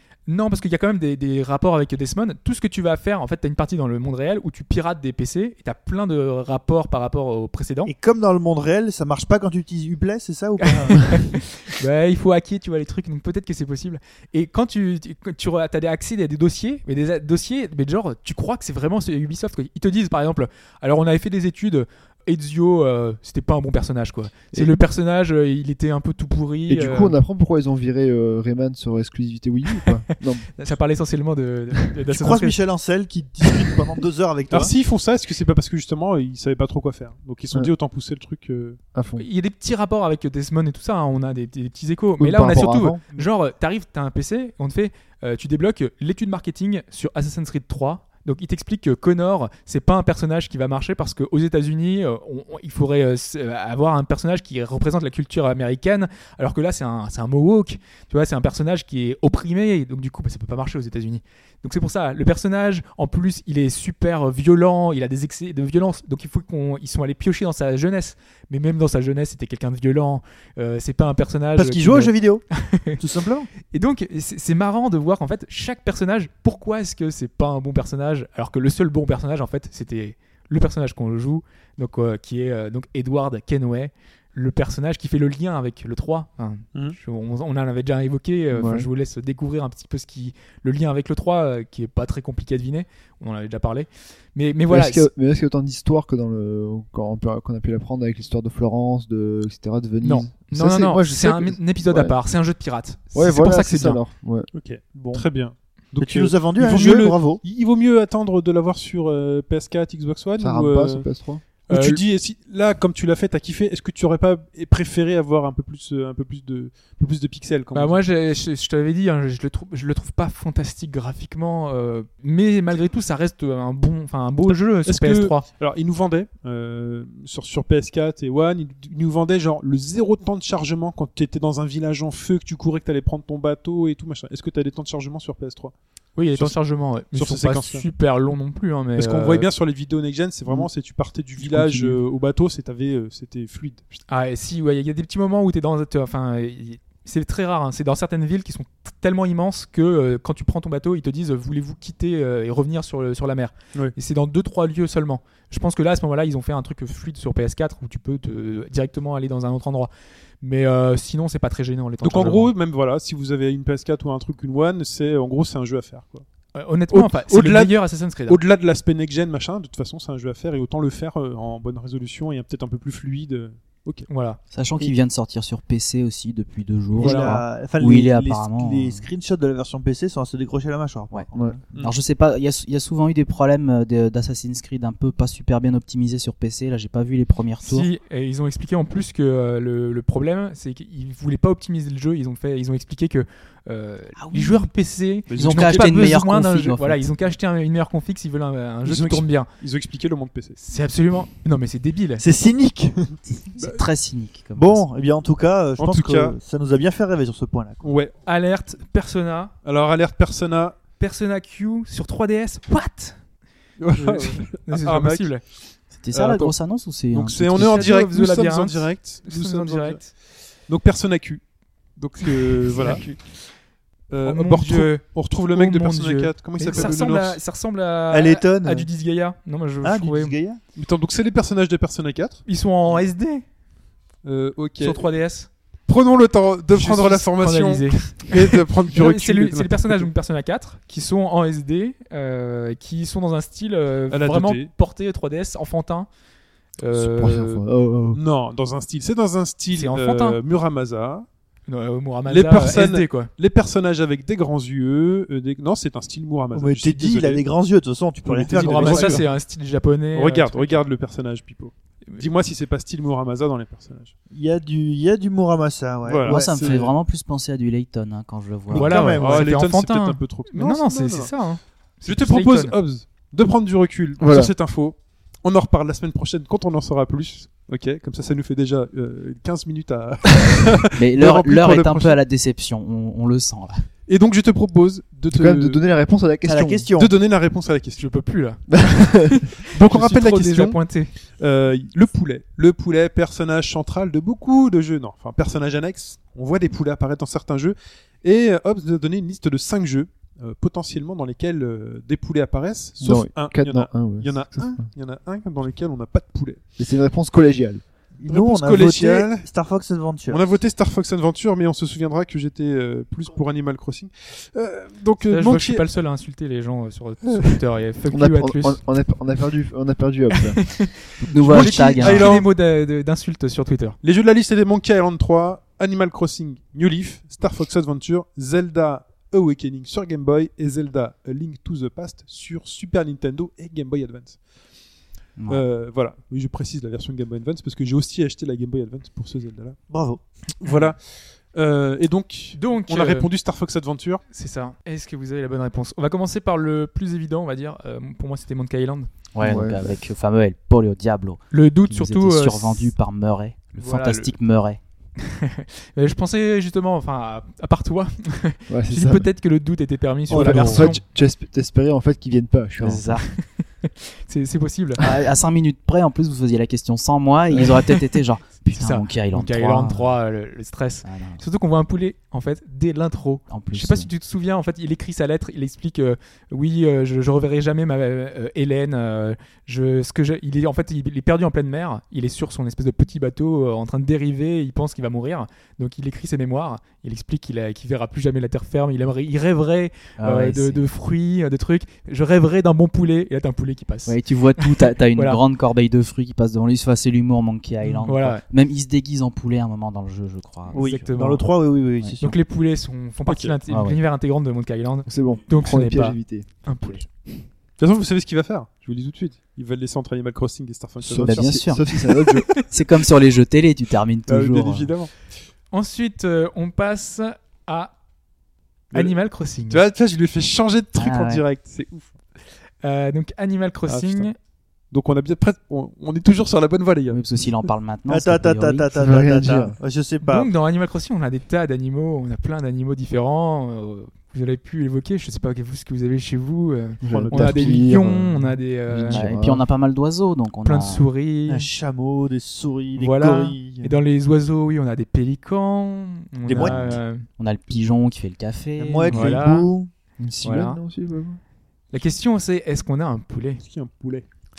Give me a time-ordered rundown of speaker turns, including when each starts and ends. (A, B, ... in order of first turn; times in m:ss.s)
0:00.3-0:07.9 A
0:07.9-0:11.4 B
0:10.6-0:27.2 A
0:24.5-0:24.8 C
0:26.7-0:30.5 C
0:30.5-0:32.6 A
0:32.1-0:34.7 B
0:34.5-0:38.8 D
0:38.9-0:39.3 C
0:39.2-1:13.0 A
0:42.2-0:43.0 C
1:11.6-1:12.4 B
1:13.0-1:13.5 B
1:13.7-1:35.1 A
1:28.5-1:28.9 C
1:34.7-1:42.2 C
1:40.0-1:44.0 A
1:43.1-1:44.5 C
1:44.5-1:51.1 D
1:44.9-1:45.3 B
1:46.0-1:47.4 B
1:50.4-1:51.4 C
1:51.7-1:58.0 D
1:51.7-1:52.0 A
1:57.7-2:05.5 A
2:04.5-2:15.7 D
2:16.2-2:19.5 A
2:16.3-2:17.9 D
2:19.0-2:23.8 D
2:21.4-2:22.0 C
2:24.1-2:39.9 A
2:40.4-2:42.5 A
2:42.0-2:46.2 D
2:46.6-2:48.4 A
2:46.9-2:54.1 D
2:54.1-2:54.4 A
2:54.5-2:59.0 E
2:57.0-3:01.6 B
2:57.0-2:57.4 A
3:01.8-3:07.9 E
3:07.6-3:19.5 A
3:14.2-3:14.7 E
3:15.3-3:15.9 D
3:15.3-3:17.0 E
3:18.8-3:20.6 D
3:20.6-3:22.2 A
3:22.2-3:23.2 B
3:23.3-3:24.8 E
3:23.6-3:23.8 D
3:24.6-3:27.8 B
3:25.8-3:26.4 D
3:27.8-3:28.2 D
3:28.2-3:29.6 A
3:29.6-3:30.8 D
3:31.0-3:33.2 A
3:33.8-3:35.5 D
3:34.2-3:35.4 A
3:35.9-3:37.9 E
3:36.1-3:36.6 D
3:37.1-3:41.4 D
3:37.6-3:40.1 A
3:42.0-3:43.1 D
3:42.2-3:43.5 A
3:44.1-3:47.4 D
3:44.2-3:50.4 A
3:46.7-3:46.9 B
3:48.1-3:48.9 B
3:49.8-3:50.6 B
3:50.8-3:52.5 D
3:52.5-3:53.4 A
3:54.2-3:55.1 D
3:54.8-3:55.5 A
3:55.9-4:00.1 D
3:56.7-4:06.1 A
4:04.1-4:04.7 D
4:06.8-4:07.6 A
4:06.9-4:08.2 C
4:08.1-4:11.3 D
4:09.7-4:10.4 A
4:11.7-4:13.3 A
4:12.3-4:17.4 D
4:16.5-4:19.2 B
4:18.2-4:19.3 D
4:18.6-4:20.8 A
4:20.2-4:24.1 D
4:24.3-4:26.8 B
4:26.0-4:26.9 D
4:26.2-4:29.0 E
4:28.7-4:29.6 B
4:28.7-4:32.8 A
4:28.8-4:31.4 D
4:32.0-4:42.2 D
4:34.2-4:34.5 C
4:41.0-4:43.9 E
4:44.1-4:45.8 D
4:45.3-4:46.9 C
4:46.4-4:47.2 B
4:47.0-4:48.1 D
4:48.0-4:51.1 A
4:48.7-4:49.4 C
4:49.7-5:06.6 D
5:03.0-5:04.8 C
5:06.8-5:07.8 C
5:08.2-5:10.4 B
5:08.3-5:09.5 D
5:10.3-5:15.9 D
5:15.3-5:18.8 A
5:18.1-5:20.8 C
5:20.6-5:24.0 A
5:21.3-5:22.4 E
5:21.4-5:22.5 D
5:24.0-5:34.4 D
5:35.4-5:35.6 E
5:35.5-5:39.8 D
5:39.9-5:40.2 B
5:40.6-5:44.2 D
5:40.6-5:40.9 A
5:42.6-5:43.3 A
5:44.3-5:49.1 A
5:49.4-5:54.8 E
5:49.4-5:50.0 C
5:51.5-5:52.9 A
5:53.8-5:54.4 A
5:55.2-6:01.0 A
5:58.7-5:59.3 C
6:00.3-6:03.1 C
6:00.3-6:00.9 D
6:02.8-6:03.3 E
6:03.3-6:05.0 A
6:05.0-6:10.2 E
6:08.8-6:35.4 A
6:11.0-6:11.4 E
6:13.5-6:14.1 E
6:30.2-6:30.9 E
6:34.1-6:41.1 E
6:38.0-6:38.4 A
6:40.7-6:41.5 A
6:40.7-6:42.4 B
6:42.2-6:47.1 A
6:43.3-6:43.6 D
6:43.7-6:44.0 E
6:45.1-6:46.5 C
6:47.8-6:51.7 D
6:51.0-6:52.5 C
6:51.2-6:54.9 E
6:54.3-6:55.1 D
6:55.7-6:57.9 A
6:58.9-6:59.8 A
6:59.7-7:02.2 D
7:01.0-7:01.4 E
7:02.8-7:04.4 A
7:03.9-7:04.3 D
7:04.9-7:07.2 D
7:07.1-7:09.0 E
7:08.1-7:10.5 B
7:09.0-7:09.8 C
7:10.2-7:19.3 A
7:17.0-7:19.6 C
7:17.1-7:17.9 D
7:19.1-7:21.1 E
7:20.6-7:21.7 A
7:21.5-7:24.0 B
7:23.0-7:27.2 A
7:26.5-7:27.0 B
7:27.4-7:29.4 E
7:28.8-7:29.9 B
7:29.1-7:29.7 A
7:30.2-7:31.4 C
7:30.4-7:30.8 A
7:31.9-7:33.6 A
7:33.6-7:34.3 D